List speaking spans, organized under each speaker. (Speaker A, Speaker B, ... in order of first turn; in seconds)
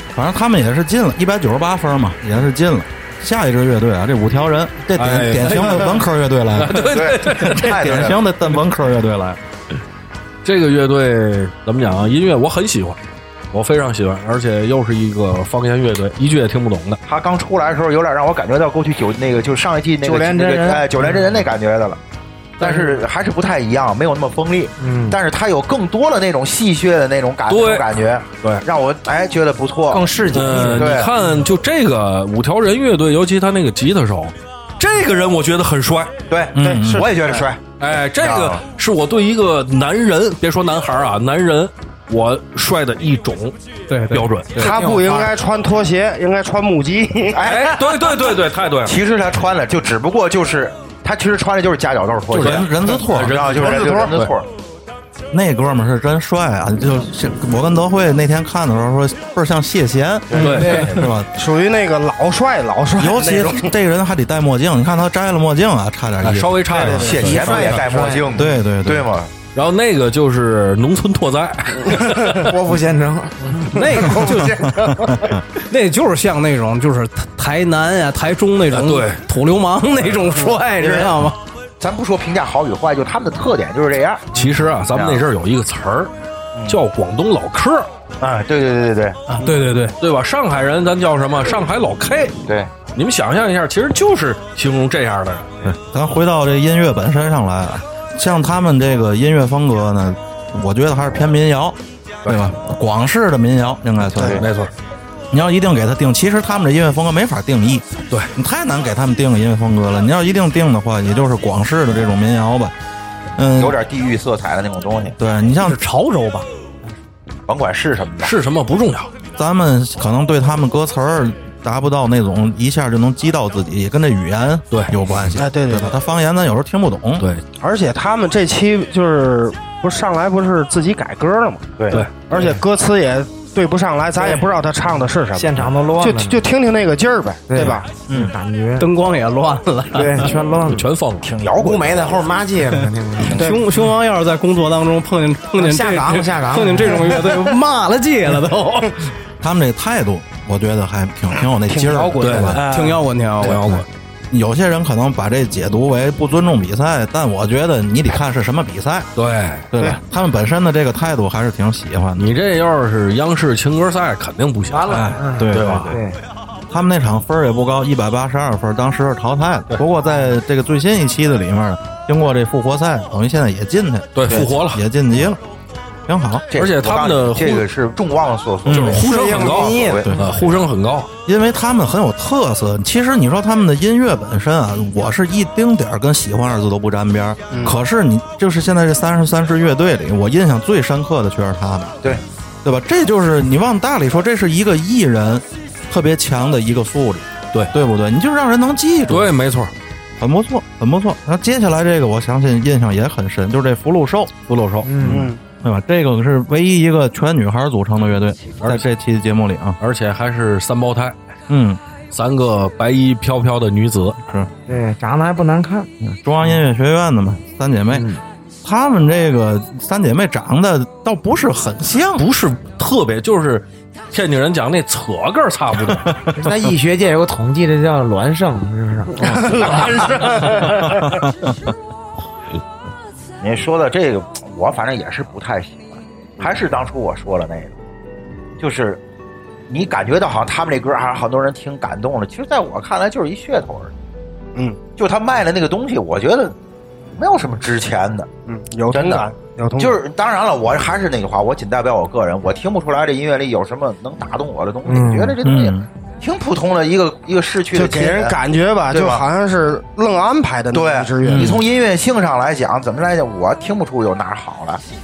Speaker A: 0.1-9.4, 36.5-37.1, 52.4-53.5, 55.3-61.3, 63.0-67.1, 68.3-69.1, 74.7-75.4, 95.6-104.5, 105.3-112.8, 113.4-113.8, 115.2-115.8, 119.4-127.3, 149.4-152.6, 154.3-159.1, 159.7-162.3, 164.9-166.0, 166.7-175.4, 176.1-176.5, 178.7-179.0, 180.1-180.3, 181.3-199.3, 200.2-204.3, 205.1-209.8, 211.5-211.8, 216.0-218.1, 218.6-222.3, 225.9-226.3, 230.6-231.5, 255.4-255.9, 261.2-261.6
Speaker B: 5.0-6.0, 6.6-8.0, 10.4-13.0, 13.5-17.0, 27.5-27.9, 30.3-36.1, 37.8-43.6, 44.1-44.8, 47.4-49.0, 52.3-54.3, 60.4-61.0, 66.2-67.8, 69.5-72.5, 78.7-79.2, 84.3-86.1, 86.7-87.9, 90.0-92.4, 92.9-95.7, 104.3-104.7, 118.2-119.1, 140.7-141.3, 152.2-152.7, 153.4-153.9, 159.2-159.7, 162.2-166.0, 174.2-174.8, 176.5-177.7, 178.7-181.1, 199.1-199.7, 204.5-205.2, 209.8-211.2, 212.1-214.2, 222.2-226.1
Speaker C: 6.8-8.2, 17.1-22.0, 22.6-31.1, 36.3-37.6, 38.2-38.6, 47.3-54.5, 60.3-61.1, 66.7-69.3, 80.8-81.1, 81.8-85.2, 86.5-86.8, 88.2-89.2, 92.5-92.7, 104.2-104.5, 113.6-115.2, 117.5-118.3, 131.8-132.1, 138.1-138.3, 141.2-142.4, 143.2-143.6, 176.5-180.1, 233.4-237.7, 238.6-239.0, 239.7-243.9, 245.0-246.6, 247.2-248.3, 248.9-249.3, 249.8-258.4, 258.9-259.2, 260.7-264.8
Speaker D: 20.0-21.3, 22.6-22.9, 24.8-25.2, 29.9-31.0, 44.6-45.3, 60.4-60.9, 67.2-68.3, 71.9-74.5, 135.3-136.4, 137.5-138.9, 139.9-140.9, 141.6-143.4, 145.6-147.4, 164.7-166.2, 179.2-180.1, 204.8-205.3, 214.7-215.9, 217.9-218.2, 226.4-229.8
Speaker E: 36.6-37.5, 44.6-47.4, 53.6-54.1, 61.3-63.7, 66.8-67.3, 125.4-125.9, 127.6-137.9, 143.4-143.6, 151.7-152.8, 179.2-179.8, 205.1-205.4, 229.2-231.2, 248.5-250.0, 257.7-261.5
Speaker F: 43.9-44.3, 73.7-74.8, 75.6-81.4, 89.3-90.0, 115.6-116.5, 138.8-140.3, 143.3-149.0, 152.5-153.8